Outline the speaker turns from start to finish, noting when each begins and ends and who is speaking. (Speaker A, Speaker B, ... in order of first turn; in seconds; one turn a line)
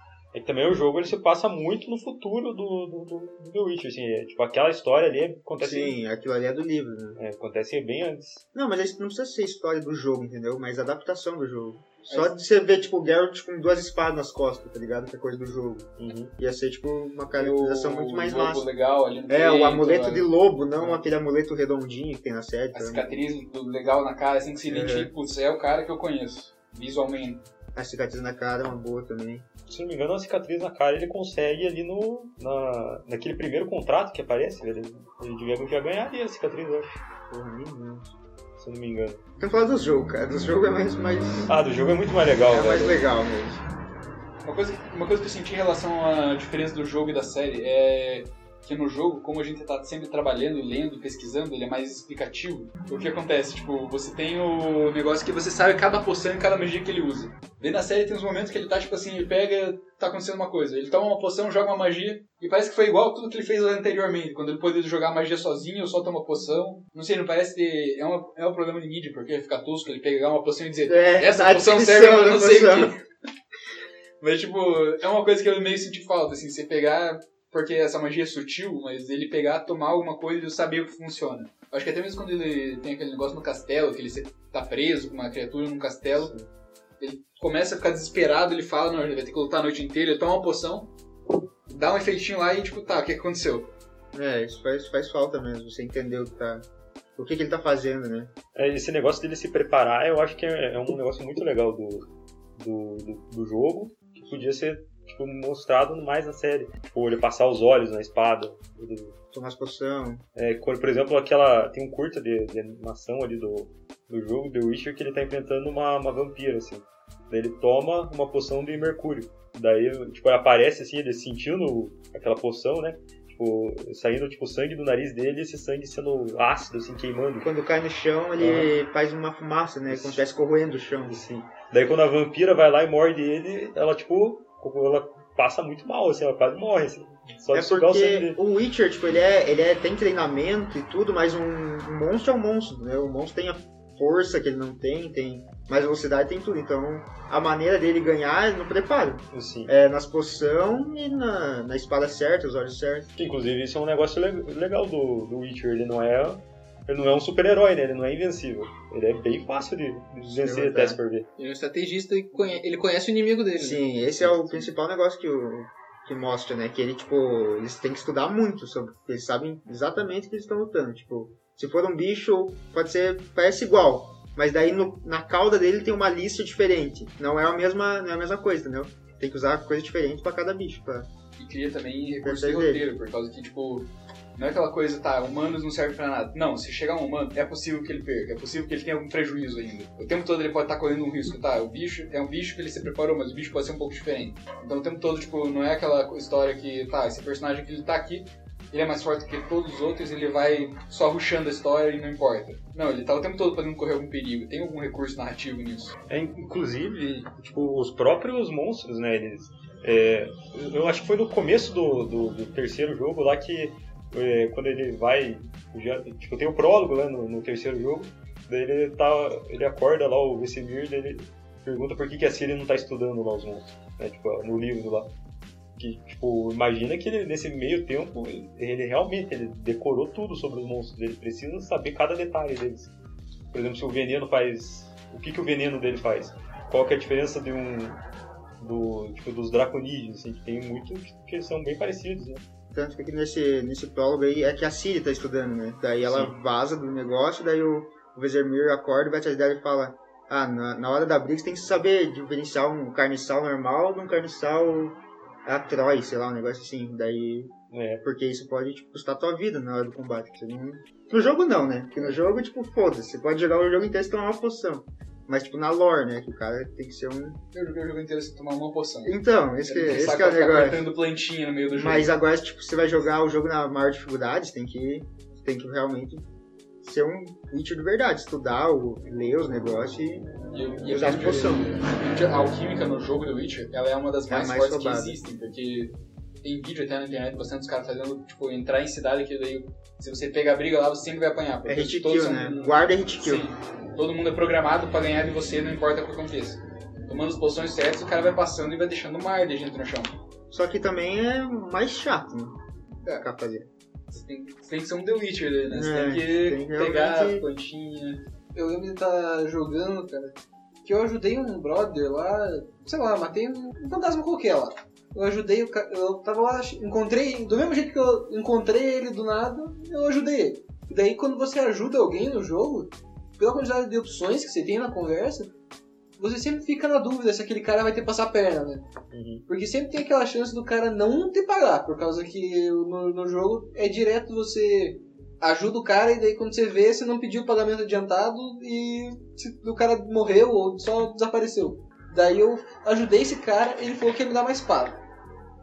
Speaker A: 0.3-6.0
Speaker B: 5.6-7.2
Speaker A: 7.2-8.4
Speaker B: 8.5-18.6
Speaker C: 12.1-12.4
Speaker A: 16.0-16.3
Speaker C: 17.3-21.0
Speaker B: 19.3-23.1
Speaker C: 22.7-27.4
Speaker B: 24.7-25.1
Speaker B: 27.7-29.4
Speaker A: 29.7-37.0
Speaker B: 37.3-38.1
Speaker A: 38.6-39.2
Speaker B: 39.4-41.5
Speaker A: 41.5-43.0
Speaker B: 42.5-43.6
Speaker C: 44.4-72.9
Speaker B: 70.8-72.9
Speaker C: 74.2-86.3
Speaker C: 87.0-90.9
Speaker C: 91.7-93.7
Speaker B: 94.1-98.3
Speaker A: 98.5-102.0
Speaker A: 102.6-109.1
Speaker B: 109.3-110.2
Speaker A: 110.3-127.5
Speaker B: 127.4-131.2
Speaker A: 128.4-128.7
Speaker A: 129.9-130.2
Speaker A: 131.1-138.4
Speaker B: 137.5-153.1
Speaker A: 149.3-149.7
Speaker A: 153.2-161.3
Speaker B: 160.2-161.0
Speaker D: 161.4-163.8
Speaker B: 163.6-181.1
Speaker A: 164.2-164.5
Speaker C: 181.4-205.9
Speaker B: 182.2-182.8
Speaker A: 206.1-225.1
Speaker A: 225.8-232.9
Speaker A: 233.5-238.0
Speaker A: 238.6-242.4
Speaker B: 242.7-267.4
Speaker A: 246.0-246.3
Speaker A: 257.7-258.0
Speaker C: 267.5-272.1
Speaker B: 269.0-270.9
Speaker B: 271.7-276.2
Speaker B: 276.8-280.3
Speaker C: 280.5-300.1
Speaker B: 280.9-281.7
Speaker B: 284.3-285.2
Speaker B: 291.6-293.5
Speaker B: 300.5-302.6
Speaker B: 303.1-303.7
Speaker C: 304.1-308.2
Speaker B: 305.7-307.4
Speaker D: 308.5-325.5
Speaker D: 326.2-328.9
Speaker A: 329.1-329.4
Speaker D: 329.5-345.0